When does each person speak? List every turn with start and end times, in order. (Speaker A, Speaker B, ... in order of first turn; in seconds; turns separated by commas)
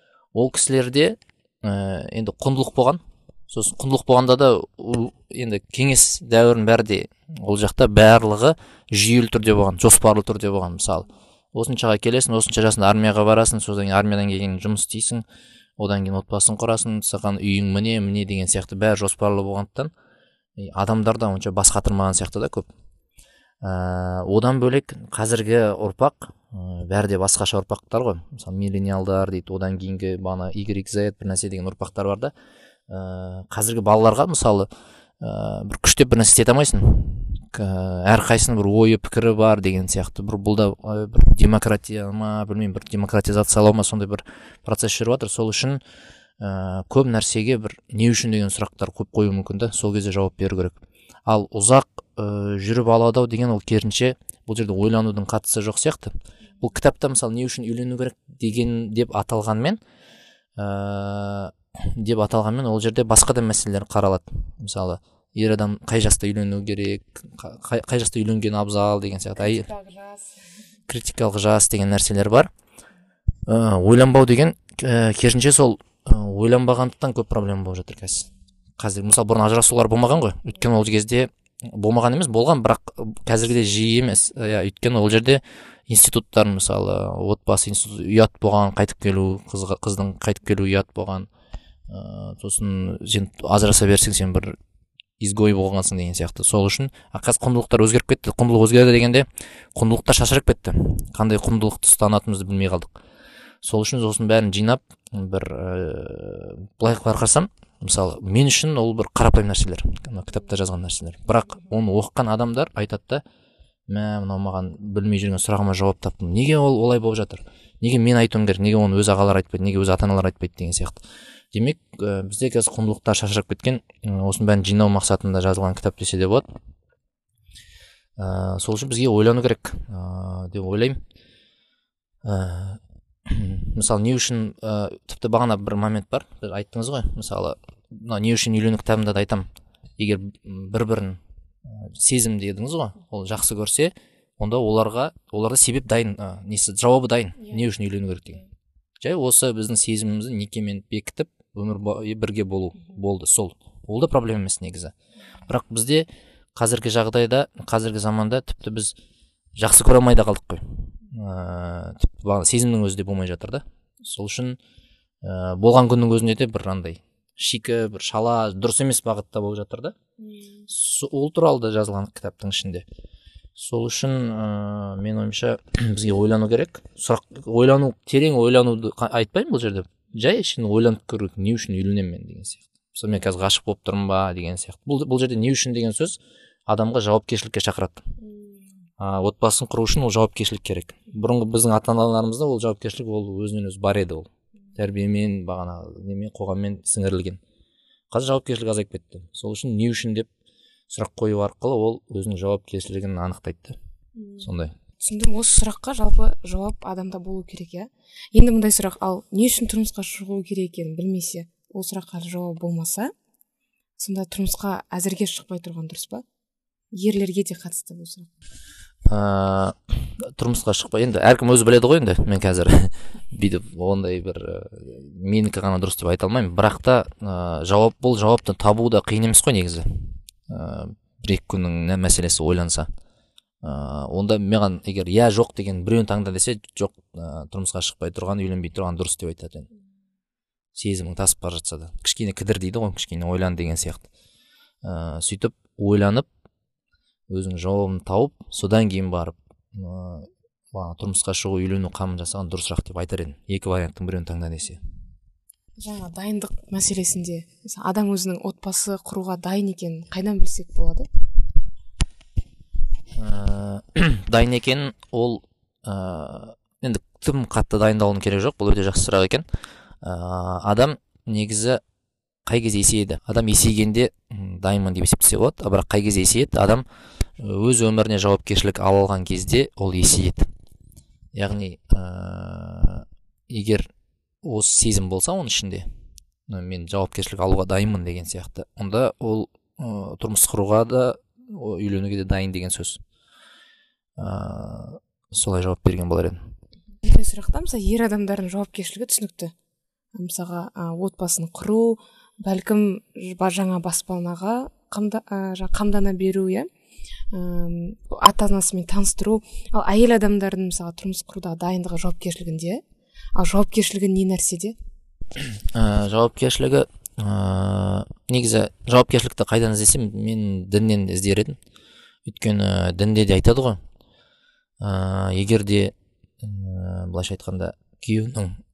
Speaker A: 0.3-15.2, Speaker A: 15.8-19.9, Speaker A: 20.6-22.7, Speaker A: 23.6-32.3, Speaker A: 32.9-34.7, Speaker A: 35.2-45.8, Speaker A: 46.4-59.8, Speaker A: 60.6-69.7, Speaker B: 69.7-70.2, Speaker A: 70.9-72.5, Speaker A: 73.5-91.3, Speaker A: 91.9-94.6, Speaker A: 95.2-102.9, Speaker A: 103.6-113.2, Speaker A: 113.9-121.0, Speaker A: 121.5-126.5, Speaker A: 128.2-131.0, Speaker A: 132.2-148.4, Speaker A: 149.0-154.9, Speaker A: 155.5-158.9, Speaker A: 159.6-164.6, Speaker A: 165.2-169.9, Speaker B: 170.2-170.7, Speaker A: 170.7-172.8, Speaker A: 173.6-188.0, Speaker B: 188.2-188.6, Speaker A: 189.0-197.4, Speaker A: 198.1-200.3, Speaker A: 200.9-203.8, Speaker B: 204.2-204.5, Speaker A: 204.4-204.7, Speaker B: 205.0-213.1, Speaker B: 214.0-216.2, Speaker B: 216.9-218.3, Speaker A: 219.1-232.9, Speaker A: 233.6-239.7, Speaker A: 240.7-244.1, Speaker A: 244.8-246.3, Speaker A: 247.3-254.8, Speaker B: 255.8-261.1, Speaker A: 263.1-269.5, Speaker A: 270.0-271.8, Speaker A: 272.4-276.9, Speaker A: 277.4-280.4, Speaker A: 281.3-283.9, Speaker A: 284.4-285.9, Speaker A: 286.5-293.0, Speaker A: 294.2-296.4, Speaker B: 297.0-299.5, Speaker B: 300.1-306.7, Speaker B: 307.3-312.8, Speaker B: 313.4-314.8, Speaker A: 315.4-321.6, Speaker A: 322.3-323.8, Speaker A: 324.8-328.6